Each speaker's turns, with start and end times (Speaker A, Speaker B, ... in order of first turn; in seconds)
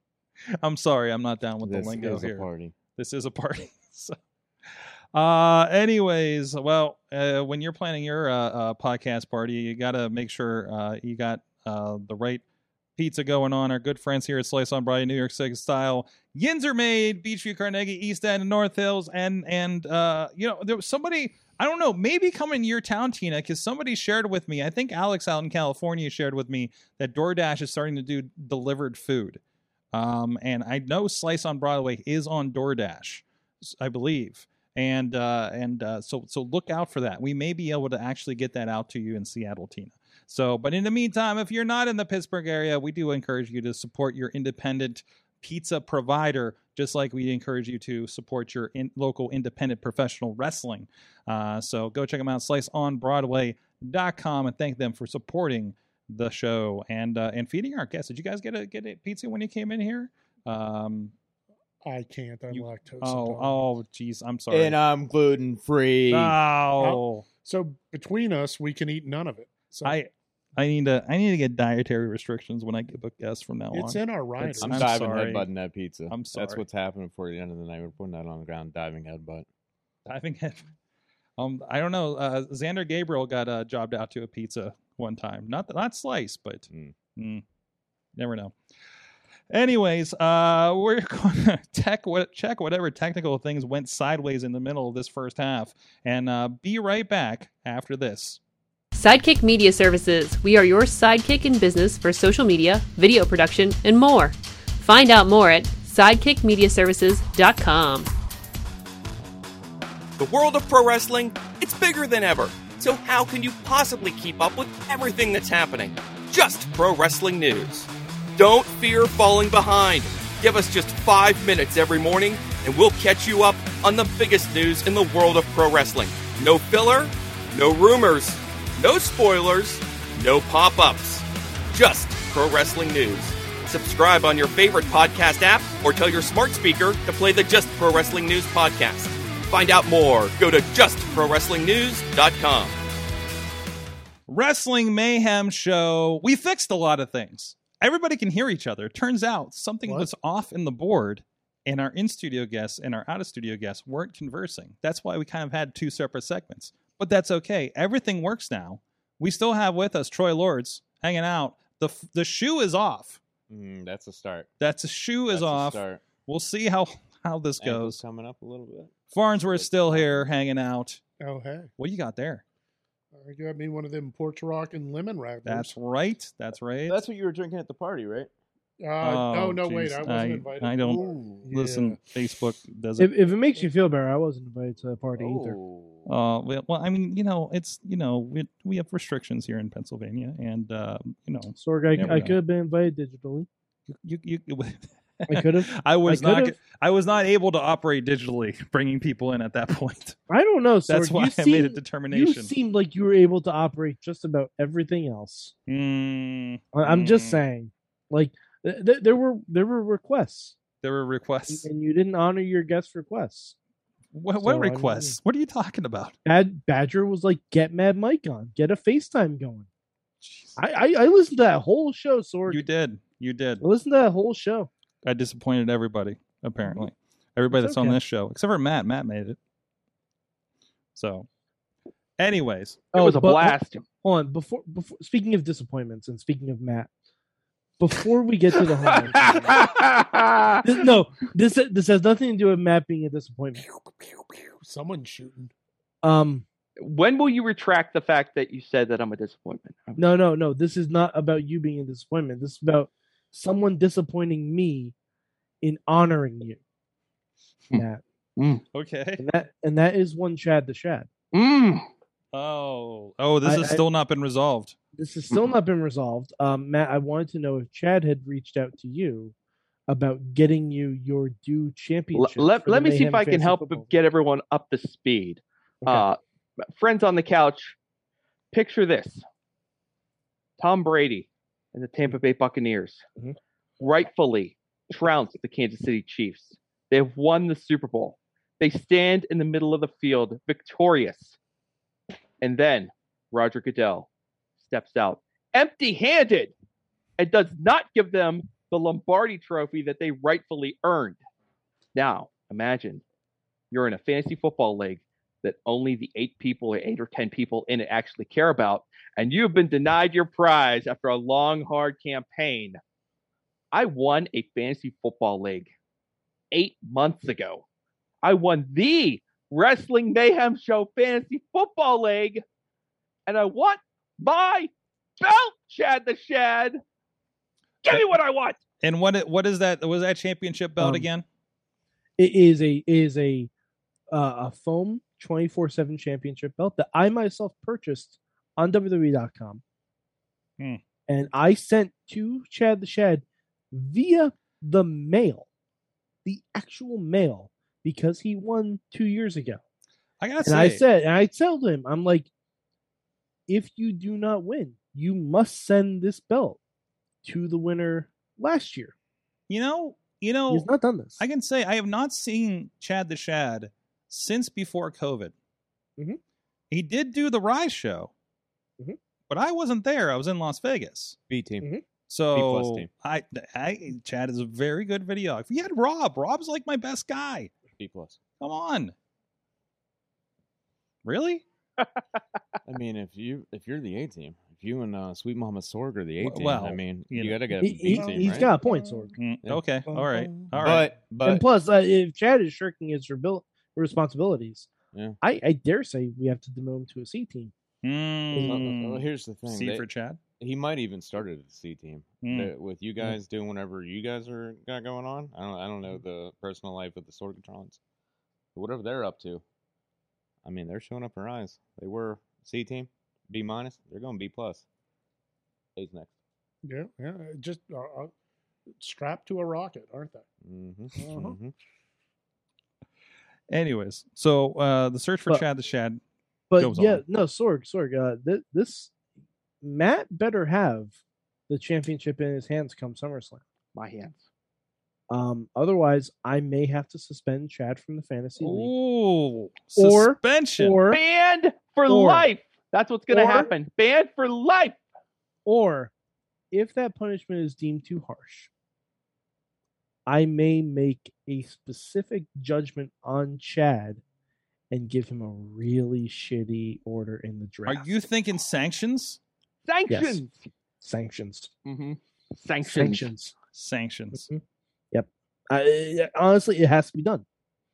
Speaker A: 0.6-4.2, 5.1-12.4, 13.0-29.4, 29.9-61.1, 62.5-64.8, 66.1-67.3, 69.8-75.5, 76.1-76.6, 80.1-80.6, 81.4-87.4, 88.2-88.6, 89.5-98.4, 144.3-163.2, 164.6-168.0, 169.1-171.0, 171.8-172.4, 175.5-177.0, 179.0-183.2, 186.1-192.4, 193.9-200.2, 200.9-202.5, 205.7-207.4, 210.8-211.7, 214.1-216.2, 220.2-220.6, 222.5-223.6, 225.0-229.4, 230.9-231.3, 232.2-232.9, 258.7-259.2, 262.3-264.8, 328.8-331.2, 350.2-350.8, 359.5-365.3, 366.7-368.1, 369.3-371.2, 372.1-377.5, 378.4-378.9, 381.1-381.4, 386.2-387.5, 389.2-390.9, 397.8-400.2, 402.2-402.5, 423.5-426.0, 426.6-427.0, 438.4-440.8, 457.7-459.2, 463.5-464.3
Speaker B: 1.6-2.8, 64.5-66.4, 74.6-79.5, 86.7-87.0, 163.5-164.5, 165.3-166.1, 167.6-170.3, 176.9-178.3, 180.9-181.3, 185.2-186.1, 371.3-371.7, 372.3-372.9, 377.8-378.2, 382.6-388.5, 390.6-391.4, 394.9-395.2, 398.4-399.9, 400.4-407.8, 408.5-409.4, 410.4-414.6, 415.8-416.2, 420.4-421.5
Speaker C: 61.8-63.6, 66.8-70.0, 73.7-75.0, 171.2-171.7, 173.2-175.8, 178.8-182.0, 239.2-239.5, 243.8-245.5, 387.9-389.2, 389.9-390.6, 416.6-418.1, 418.8-420.3, 421.0-421.4
Speaker D: 98.9-108.1
Speaker E: 110.2-142.8
Speaker F: 183.0-185.6, 191.6-193.5, 195.3-196.6, 200.3-205.5, 206.7-210.6, 211.5-213.6, 214.4-215.2, 216.2-219.7, 220.6-222.6, 223.6-224.7, 226.6-226.9, 227.5-228.0, 232.9-236.9, 237.8-239.6, 240.6-243.6, 246.0-246.4, 250.0-254.9, 255.6-256.6, 257.8-258.0, 259.2-261.1, 263.4-263.8, 265.0-269.3, 269.9-273.9, 330.8-331.1, 332.2-333.5, 334.1-339.6, 341.1-345.5, 346.2-349.6, 350.4-352.3, 353.5-356.6, 357.2-358.9, 360.5-361.2, 387.6-389.1, 391.2-394.7, 395.2-397.5, 398.3-398.7, 426.5-428.9, 429.6-430.9, 431.5-433.4, 435.1-438.7, 439.8-441.0, 441.9-442.3, 443.1-443.5, 445.5-445.9, 446.5-448.5, 450.1-454.0, 454.7-457.9, 459.9-460.2, 460.8-461.5, 462.6-463.3, 464.1-464.4, 464.9-467.2
Speaker G: 232.9-233.8, 239.1-240.7, 246.8-250.1, 258.4-258.6, 261.3-261.9, 272.1-276.2, 276.7-277.8, 278.5-279.2, 280.6-283.0, 283.8-291.4, 292.4-294.1, 294.6-296.5, 297.2-301.2, 301.9-303.0, 303.7-312.8, 313.7-315.7, 316.5-317.6, 318.2-322.4, 323.3-326.8, 327.8-328.6, 433.8-434.3, 440.9-444.8, 459.6-460.5, 461.6-463.1